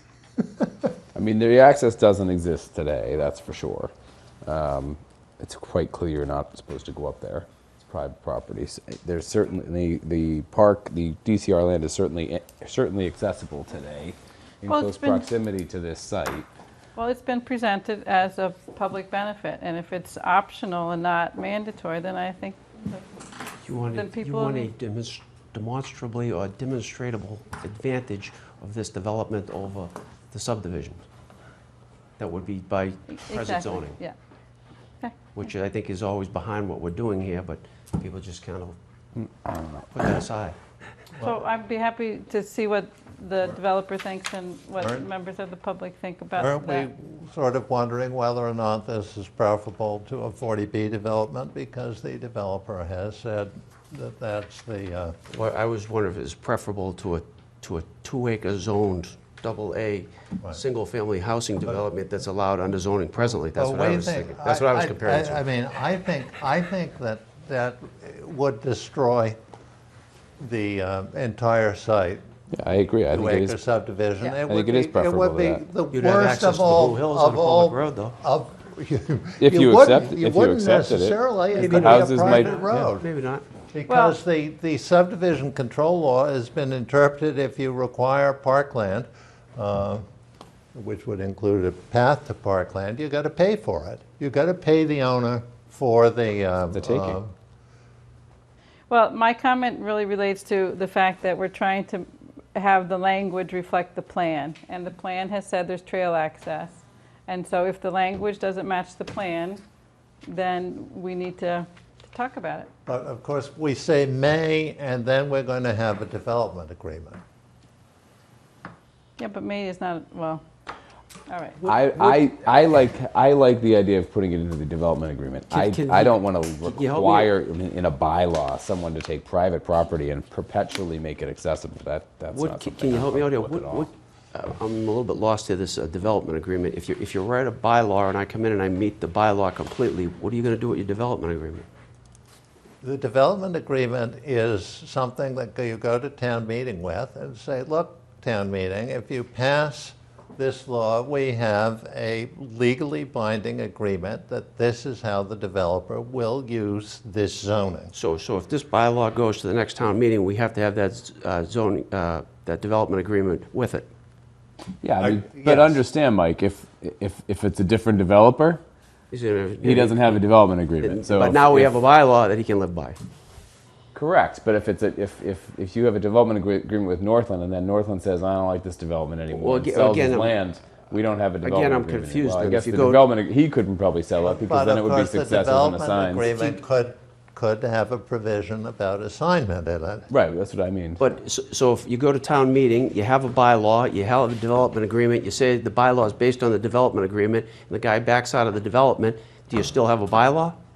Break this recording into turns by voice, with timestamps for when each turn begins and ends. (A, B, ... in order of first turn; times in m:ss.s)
0:01.2-0:03.9 A
0:04.4-0:16.5 A
0:14.7-0:15.2 B
0:17.0-0:23.0 B
0:23.6-0:31.0 C
0:23.9-0:24.7 B
0:32.2-0:34.0 C
0:33.1-0:34.1 B
0:35.3-0:38.8 C
0:39.5-0:39.8 A
0:39.9-0:40.6 C
0:41.2-0:41.4 D
0:41.2-0:46.9 B
0:44.8-0:45.1 D
0:46.4-0:55.2 D
0:55.3-1:05.4 C
1:03.4-1:09.4 D
1:10.4-1:12.2 D
1:12.5-1:13.4 A
1:13.1-1:23.0 D
1:14.5-1:15.6 A
1:15.9-1:18.2 C
1:19.4-1:21.1 A
1:21.5-1:23.4 C
1:21.8-1:22.5 A
1:23.7-1:30.0 D
1:23.9-1:24.2 B
1:30.7-1:37.3 D
1:36.7-1:37.1 A
1:38.9-1:49.6 B
1:50.3-1:52.7 B
1:52.8-1:57.2 D
1:59.2-2:00.4 B
2:01.3-2:01.6 B
2:01.6-2:02.2 C
2:01.8-2:13.8 A
2:05.5-2:07.3 C
2:12.3-2:21.7 C
2:22.8-2:37.9 D
2:37.9-2:43.9 C
2:44.8-2:48.6 A
2:45.0-2:45.8 D
2:49.1-2:50.2 C
2:49.7-2:51.7 A
2:50.8-2:53.0 C
2:53.9-3:06.2 A
2:59.3-3:00.4 C
3:01.4-3:03.0 C
3:04.2-3:10.1 D
3:06.3-3:06.6 C
3:10.1-3:11.0 A
3:11.0-3:20.6 C